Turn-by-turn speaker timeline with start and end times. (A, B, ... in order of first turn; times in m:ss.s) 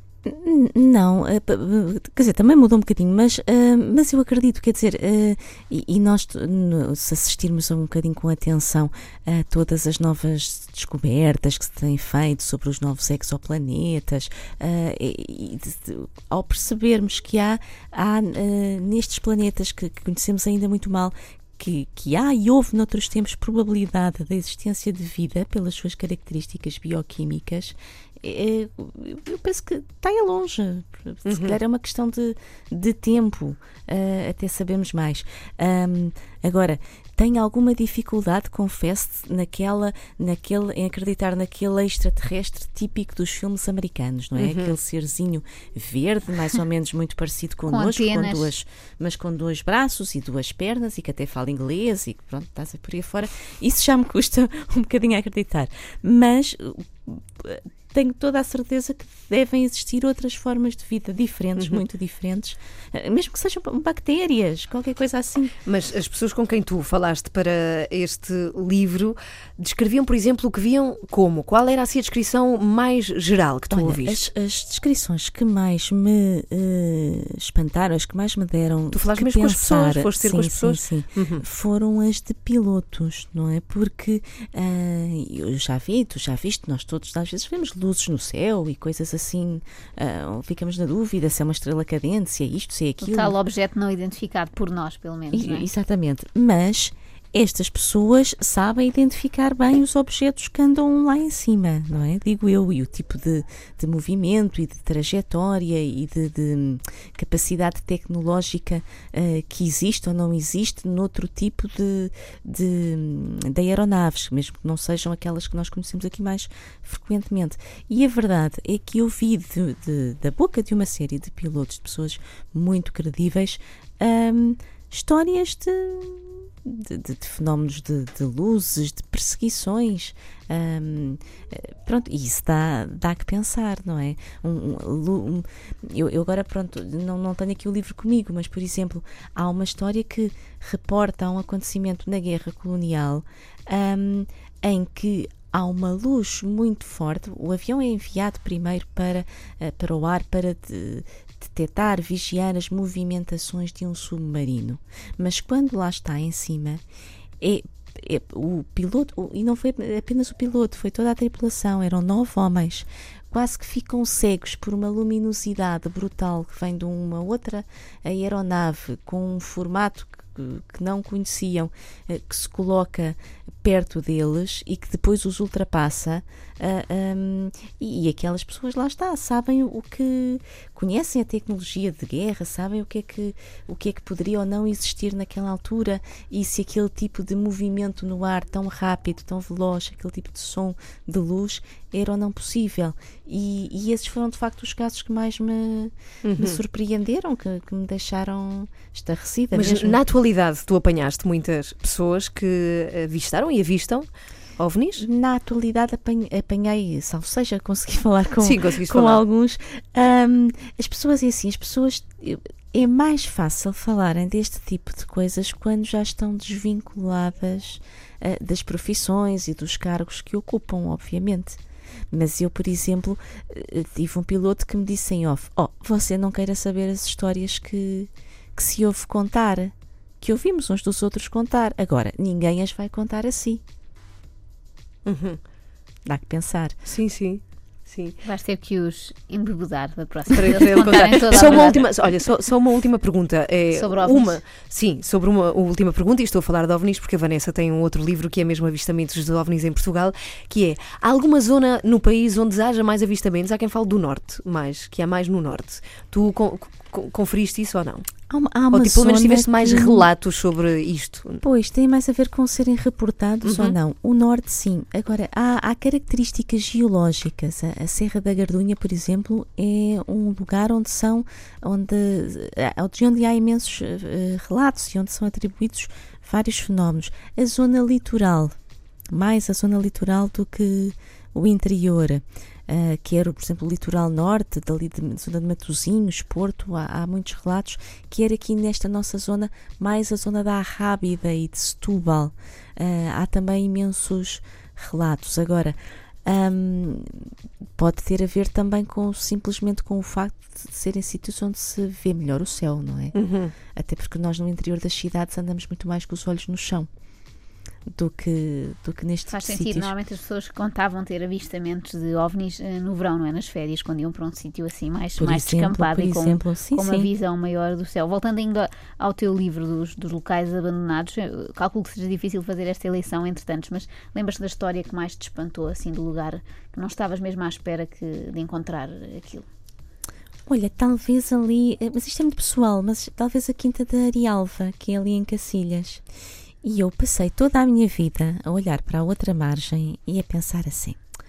0:00.2-1:05.6 A
0:31.3-0:31.6 B
0:44.4-0:44.8 B
0:47.7-0:48.5 C
1:01.6-1:01.8 B
1:05.7-1:14.2 B
1:13.7-1:33.4 A
1:18.9-1:21.4 B
1:33.0-1:35.7 C
1:35.3-2:36.8 A
2:37.4-3:20.0 A
3:16.2-3:16.6 B
3:19.5-3:24.1 B
3:24.6-3:25.0 B
3:25.0-3:41.6 A
3:28.4-3:29.2 B
3:42.1-3:53.6 A
3:55.1-3:55.4 B
3:56.1-3:56.8 A
3:56.9-3:58.2 B
3:58.2-4:01.8 C
4:00.3-4:18.1 B
4:03.8-4:04.4 C
4:18.3-4:20.1 A
4:18.7-4:21.4 B
4:21.4-4:38.6 A
4:23.4-4:23.8 B
4:39.1-4:57.3 A
4:57.8-5:03.2 A
5:03.1-5:03.5 B
5:03.8-5:06.9 A
5:07.9-5:09.9 A
5:09.3-5:29.5 C
5:15.2-5:17.1 A
5:30.5-5:36.0 A
5:36.6-5:41.0 A